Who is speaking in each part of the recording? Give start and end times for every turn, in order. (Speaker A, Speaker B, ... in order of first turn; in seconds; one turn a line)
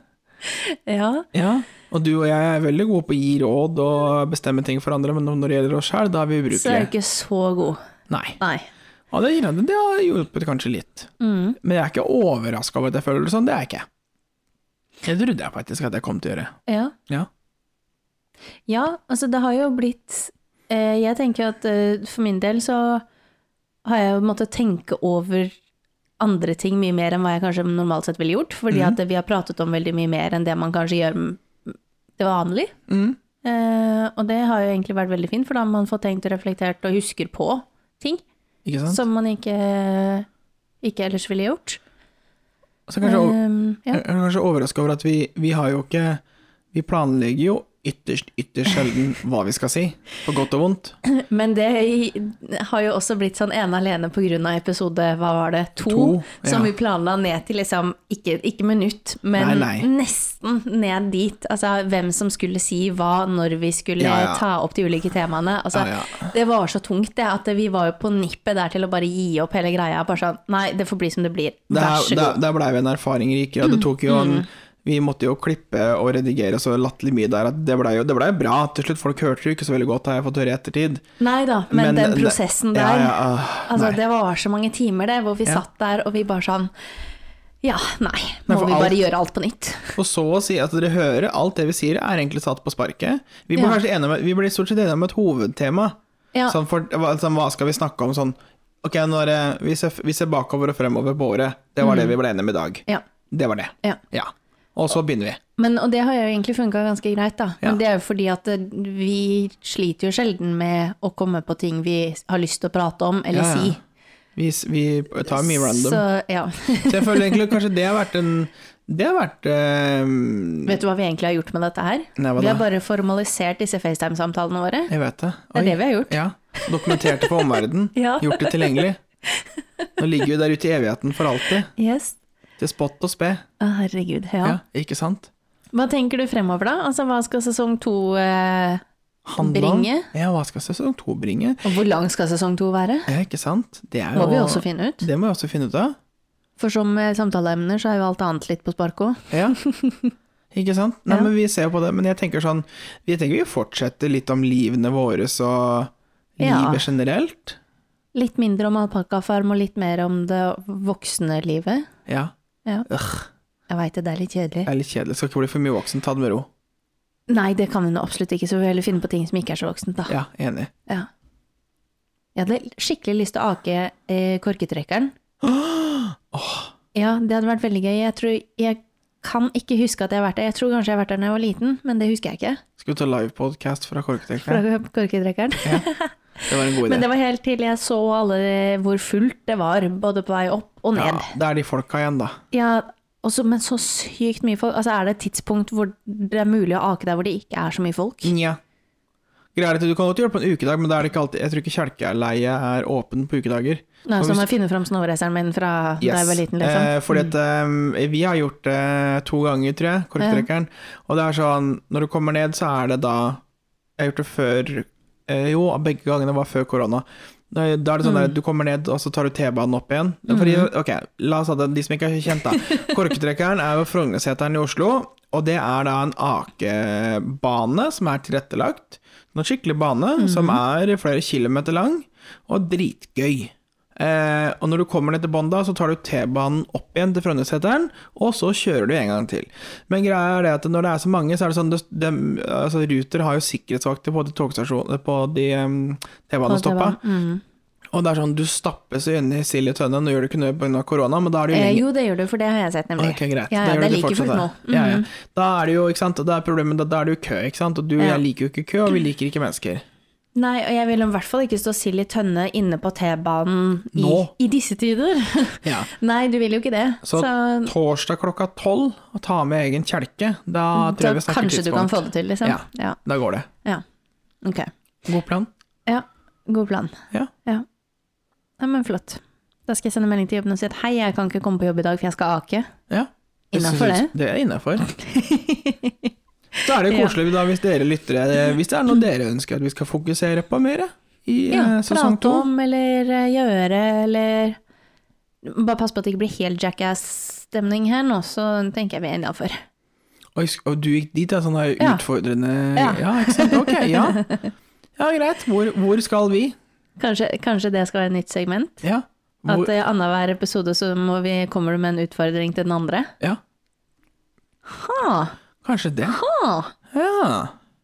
Speaker A: 0.4-1.3
Speaker B: 1.3-6.9
Speaker A: 6.5-7.8
Speaker B: 8.1-8.4
Speaker A: 8.4-8.7
Speaker B: 9.1-13.8
Speaker A: 11.2-11.6
Speaker B: 15.0-16.5
Speaker A: 16.7-16.9
Speaker A: 18.7-23.0
Speaker A: 23.8-25.6
Speaker A: 26.2-32.7
Speaker B: 28.7-29.0
Speaker B: 32.9-33.2
Speaker A: 33.4-38.2
Speaker B: 38.6-39.0
Speaker A: 38.9-40.3
Speaker A: 40.8-41.8
Speaker B: 42.9-43.4
Speaker A: 43.0-44.0
Speaker B: 43.9-46.2
Speaker B: 46.7-51.0
Speaker A: 51.0-72.4
Speaker B: 55.9-56.7
Speaker B: 59.4-59.9
Speaker B: 64.0-64.4
Speaker B: 65.7-66.3
Speaker B: 71.7-81.0
Speaker A: 73.6-74.5
Speaker A: 81.2-86.7
Speaker B: 81.7-84.0
Speaker A: 87.6-90.0
Speaker B: 88.5-89.0
Speaker B: 90.0-96.0
Speaker B: 96.5-105.4
Speaker A: 101.8-102.1
Speaker A: 105.6-113.8
Speaker B: 113.3-113.8
Speaker B: 114.3-116.0
Speaker A: 115.3-117.5
Speaker B: 116.9-120.8
Speaker A: 120.6-124.9
Speaker B: 122.2-122.6
Speaker B: 124.9-129.0
Speaker A: 125.5-127.3
Speaker A: 127.9-129.8
Speaker B: 130.0-131.7
Speaker A: 131.7-132.2
Speaker B: 132.6-133.4
Speaker A: 133.6-134.6
Speaker B: 134.4-135.3
Speaker A: 135.7-138.8
Speaker B: 139.2-141.6
Speaker A: 139.4-140.1
Speaker A: 141.6-143.1
Speaker B: 143.1-145.9
Speaker A: 144.1-145.1
Speaker A: 146.6-150.1
Speaker B: 149.3-149.6
Speaker B: 150.5-157.6
Speaker A: 156.4-156.8
Speaker A: 158.1-161.9
Speaker B: 162.1-162.3
Speaker B: 162.9-163.3
Speaker A: 163.7-164.7
Speaker B: 164.7-166.5
Speaker A: 167.3-170.2
Speaker B: 170.1-170.7
Speaker A: 172.3-175.1
Speaker B: 175.4-176.7
Speaker A: 176.9-182.6
Speaker B: 182.8-184.6
Speaker A: 184.4-191.3
Speaker B: 186.4-187.1
Speaker B: 190.9-192.4
Speaker A: 192.5-198.3
Speaker B: 198.2-198.6
Speaker B: 199.5-204.5
Speaker A: 204.1-207.3
Speaker B: 206.0-213.4
Speaker A: 210.2-210.5
Speaker B: 214.0-247.0
Speaker A: 218.0-218.3
Speaker A: 220.3-220.7
Speaker A: 222.5-222.9
Speaker A: 230.2-230.6
Speaker A: 246.5-247.4
Speaker B: 247.9-251.8
Speaker A: 251.5-255.1
Speaker B: 253.0-259.8
Speaker A: 258.0-258.2
Speaker A: 260.3-267.7
Speaker B: 263.9-264.3
Speaker B: 265.6-265.9
Speaker B: 267.0-273.5
Speaker A: 270.7-273.0
Speaker A: 274.4-274.7
Speaker B: 275.1-275.5
Speaker A: 275.9-277.6
Speaker A: 278.6-282.7
Speaker B: 282.9-284.9
Speaker A: 283.5-284.1
Speaker A: 284.8-287.2
Speaker B: 286.6-292.5
Speaker A: 291.5-294.6
Speaker A: 295.4-299.6
Speaker B: 300.3-304.2
Speaker A: 302.8-304.5
Speaker B: 305.0-306.5
Speaker A: 307.0-308.8
Speaker B: 308.8-309.7
Speaker A: 309.5-313.1
Speaker A: 314.6-315.4
Speaker B: 315.6-316.2
Speaker A: 316.1-316.7
Speaker B: 316.9-317.5